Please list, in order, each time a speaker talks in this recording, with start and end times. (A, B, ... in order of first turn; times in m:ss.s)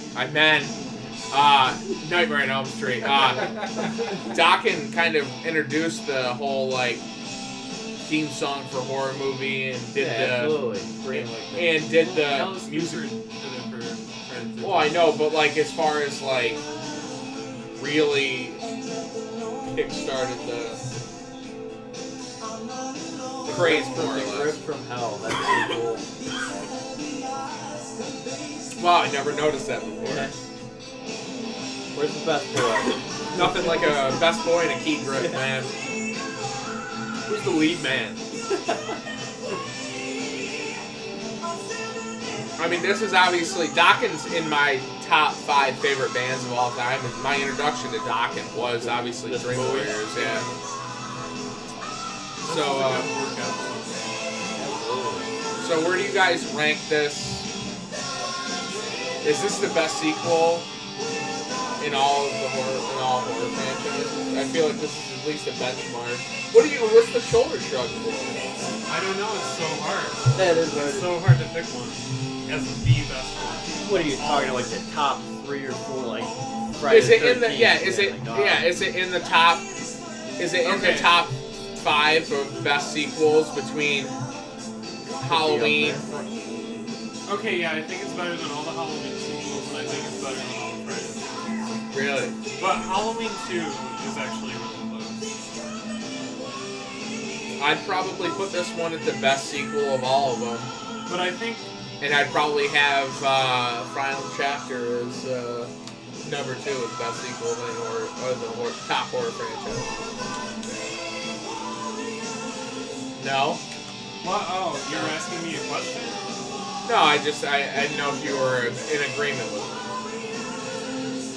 0:00.1-0:00.8 A
0:01.3-0:07.0 A
0:08.0-0:13.0 A
0:09.9-0:12.0 B
0:11.8-0:15.2 C
0:14.6-0:16.6 A
0:17.8-0:18.6 A
0:19.6-0:20.8 A
0:23.4-0:26.7 B
0:23.4-0:24.6 A
0:28.8-0:30.4 A
0:30.0-0:30.4 B
0:31.9-0:34.0 B
0:33.3-0:35.7 A
0:35.1-0:35.5 B
0:37.2-0:38.2 A
0:42.6-0:50.5 A
0:48.5-0:50.4 B
0:50.1-0:50.5 C
0:52.4-0:54.2 C
0:52.4-0:53.1 A
0:54.5-0:55.3 B
0:55.6-0:57.5 A
0:59.2-1:00.6 A
1:01.8-1:08.4 A
1:08.9-1:14.7 C
1:10.3-1:11.2 B
1:13.8-1:18.8 B
1:16.9-1:19.7 A
1:20.4-1:24.1 A
1:20.6-1:21.2 C
1:25.2-1:26.5 B
1:25.2-1:26.0 A
1:27.2-1:31.3 C
1:31.9-1:32.4 A
1:32.6-1:35.2 C
1:37.6-1:40.7 A
1:41.0-1:41.7 C
1:42.0-1:49.9 A
1:53.2-1:53.6 A
1:54.2-1:56.2 C
1:54.9-1:55.2 A
1:56.8-1:59.9 A